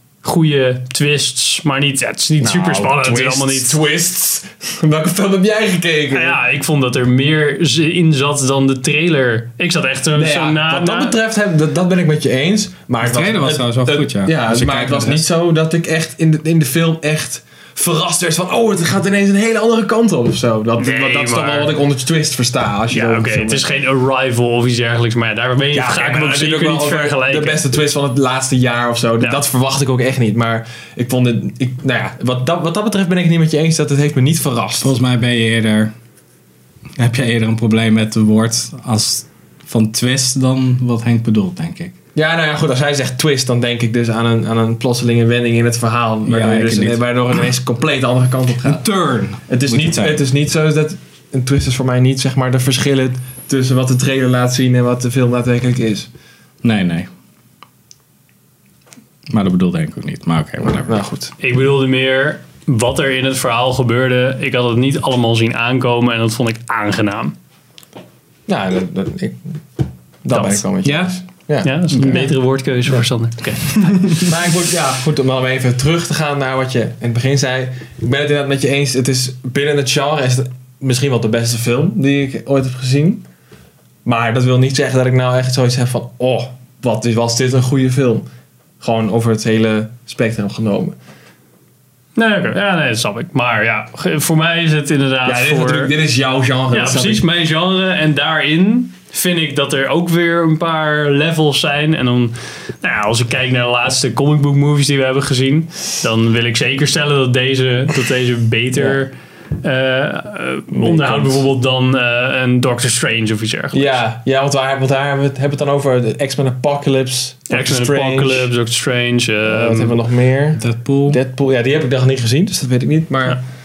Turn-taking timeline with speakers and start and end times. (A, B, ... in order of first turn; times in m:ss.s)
0:00.2-0:03.7 A
0:02.4-0:06.4 B
0:06.1-0:11.1 A
0:10.2-0:23.8 B
0:13.0-0:15.2 C
0:20.8-0:21.7 A
0:22.9-0:27.6 A
0:25.7-0:34.9 B
0:34.8-0:35.9 C
0:37.0-0:41.9 C
0:42.1-0:48.8 B
0:46.2-0:47.0 C
0:48.6-0:50.2 C
0:49.5-0:56.1 B
0:56.6-0:57.1 C
0:59.3-1:01.0 C
1:00.8-1:01.3 B
1:01.4-1:07.3 A
1:08.5-1:09.6 B
1:10.2-1:12.3 B
1:10.3-1:10.6 A
1:10.8-1:11.1 C
1:11.6-1:14.3 A
1:11.9-1:12.3 C
1:14.2-1:23.2 B
1:24.0-1:28.3 B
1:28.8-1:30.9 B
1:32.2-1:35.9 A
1:35.2-1:37.2 B
1:36.7-1:54.0 A
1:48.7-1:49.0 B
1:50.7-1:51.4 B
1:53.7-1:58.5 B
1:57.5-2:00.0 A
1:59.4-2:03.4 B
2:00.6-2:01.2 C